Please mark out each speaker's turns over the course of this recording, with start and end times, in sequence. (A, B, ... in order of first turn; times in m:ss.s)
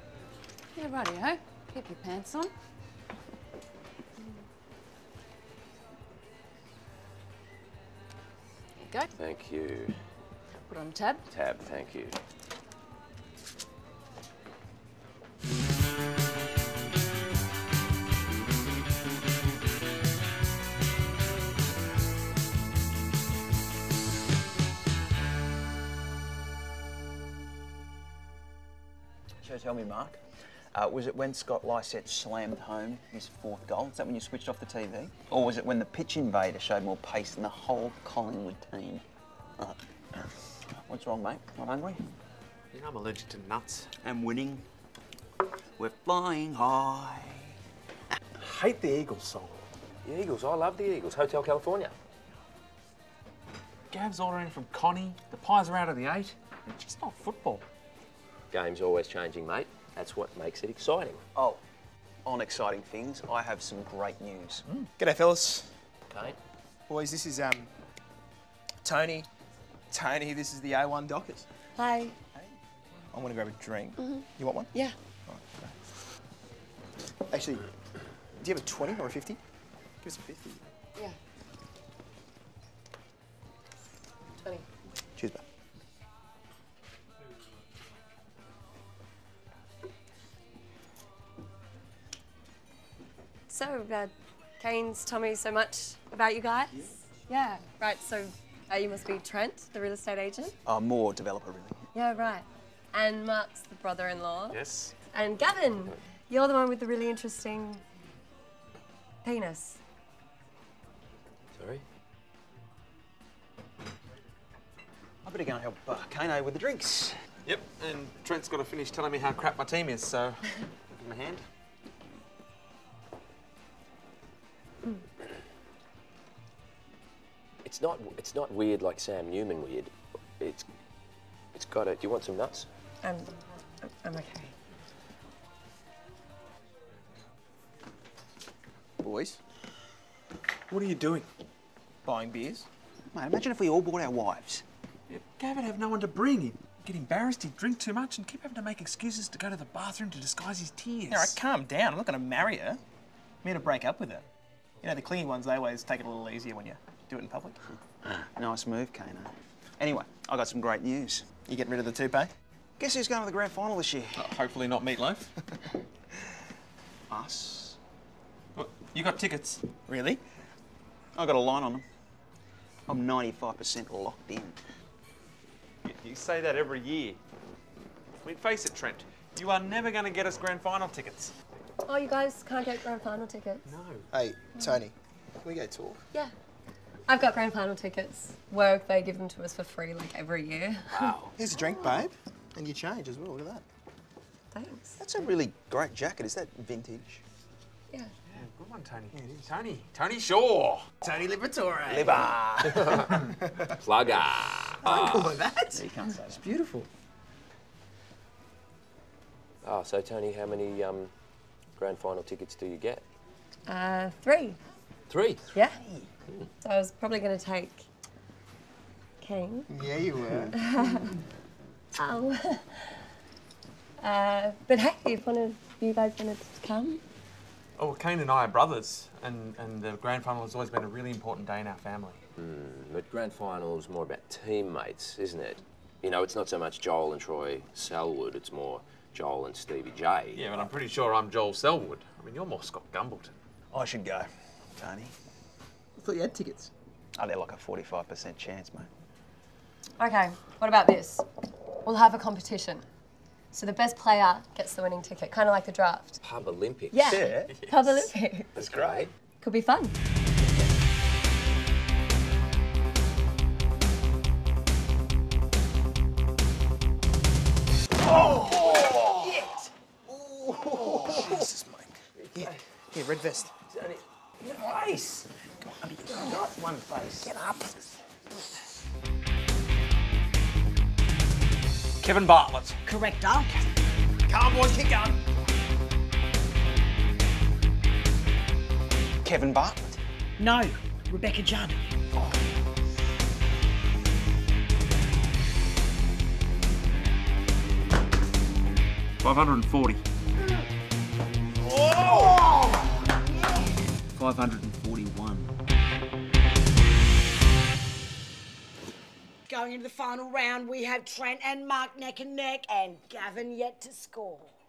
0:00.8-0:02.5 A
0:08.8-0:09.1 A
0:09.2-0:10.0 B
0:10.7-0:11.2 A
0:11.3-0:12.2 B
0:29.4-0:30.2 C
0:30.7-0:39.0 C
0:39.6-0:42.0 C
0:42.7-0:43.9 D
0:44.0-0:44.7 C
0:45.8-0:47.6 C
0:48.4-0:49.7 D
0:50.0-0:52.0 B
0:53.9-0:57.6 D
0:58.5-1:01.2 B
1:01.3-1:01.6 C
1:02.2-1:04.6 C
1:05.0-1:05.8 E
1:06.1-1:06.4 B
1:06.9-1:07.7 E
1:08.8-1:09.3 E
1:09.9-1:11.5 E
1:11.8-1:12.2 F
1:13.1-1:14.7 E
1:14.0-1:15.0 F
1:15.3-1:15.9 E
1:17.3-1:17.7 E
1:18.4-1:19.4 E
1:20.0-1:20.6 E
1:24.4-1:24.7 F
1:25.2-1:25.4 E
1:33.5-1:40.6 F
1:40.7-1:41.8 C
1:41.9-1:44.6 F
1:44.5-1:44.9 D
1:45.1-1:47.8 F
1:49.2-1:49.8 F
1:51.5-1:51.8 B
1:55.2-1:57.2 C
1:57.4-2:00.6 D
2:01.0-2:01.4 C
2:07.6-2:10.7 B
2:11.5-2:12.7 B
2:13.0-2:14.5 F
2:19.0-2:19.4 E
2:20.7-2:21.3 D
2:22.0-2:22.7 E
2:23.1-2:24.6 C
2:25.1-2:31.4 D
2:31.1-2:32.8 E
2:33.4-2:34.2 E
2:34.8-2:37.6 E
2:38.0-2:41.2 C
2:41.4-2:42.3 E
2:42.8-2:44.3 C
2:44.2-2:45.3 D
2:47.1-2:47.8 C
2:48.5-2:49.8 D
2:49.8-2:50.2 E
2:51.1-2:51.8 C
2:52.9-2:54.6 C
2:55.8-2:57.2 D
2:58.2-3:01.3 D
3:01.8-3:03.7 F
3:03.6-3:04.1 D
3:04.1-3:06.0 E
3:04.5-3:04.8 F
3:07.1-3:11.1 F
3:10.9-3:11.4 B
3:11.4-3:13.6 E
3:14.5-3:15.0 F
3:15.0-3:17.2 C
3:18.3-3:20.9 D
3:21.0-3:22.3 E
3:21.9-3:23.2 C
3:23.8-3:25.4 B
3:24.8-3:26.9 E
3:25.7-3:26.4 C
3:29.6-3:31.1 B
3:31.8-3:33.0 B
3:33.7-3:34.6 F
3:35.1-3:35.4 B
3:35.5-3:35.8 F
3:36.6-3:37.8 F
3:39.2-3:39.7 F
3:39.7-3:40.5 E
3:40.5-3:41.2 F
3:42.0-3:43.1 F
3:44.0-3:47.0 F
3:47.8-3:52.2 D
3:52.4-4:00.4 B
4:00.3-4:03.3 D
4:03.7-4:05.1 C
4:06.0-4:06.7 E
4:07.2-4:08.9 C
4:10.0-4:11.2 F
4:11.8-4:12.8 F
4:13.5-4:16.2 F
4:16.2-4:17.4 B
4:16.9-4:18.5 F
4:17.1-4:17.4 E
4:18.6-4:19.1 B
4:19.4-4:20.0 F
4:28.3-4:29.0 B
4:30.1-4:31.4 B
4:30.7-4:33.5 E
4:32.2-4:32.6 B
4:33.7-4:35.3 B
4:35.6-4:36.3 E
4:36.4-4:36.9 C
4:42.0-4:42.8 D
4:42.9-4:43.5 G
4:44.3-4:45.2 E
4:49.2-4:50.0 C
4:50.4-4:51.9 G
4:59.2-5:00.0 D
5:01.8-5:02.4 D
5:02.2-5:02.4 G
5:03.2-5:03.7 G
5:04.2-5:05.5 C
5:09.5-5:14.5 G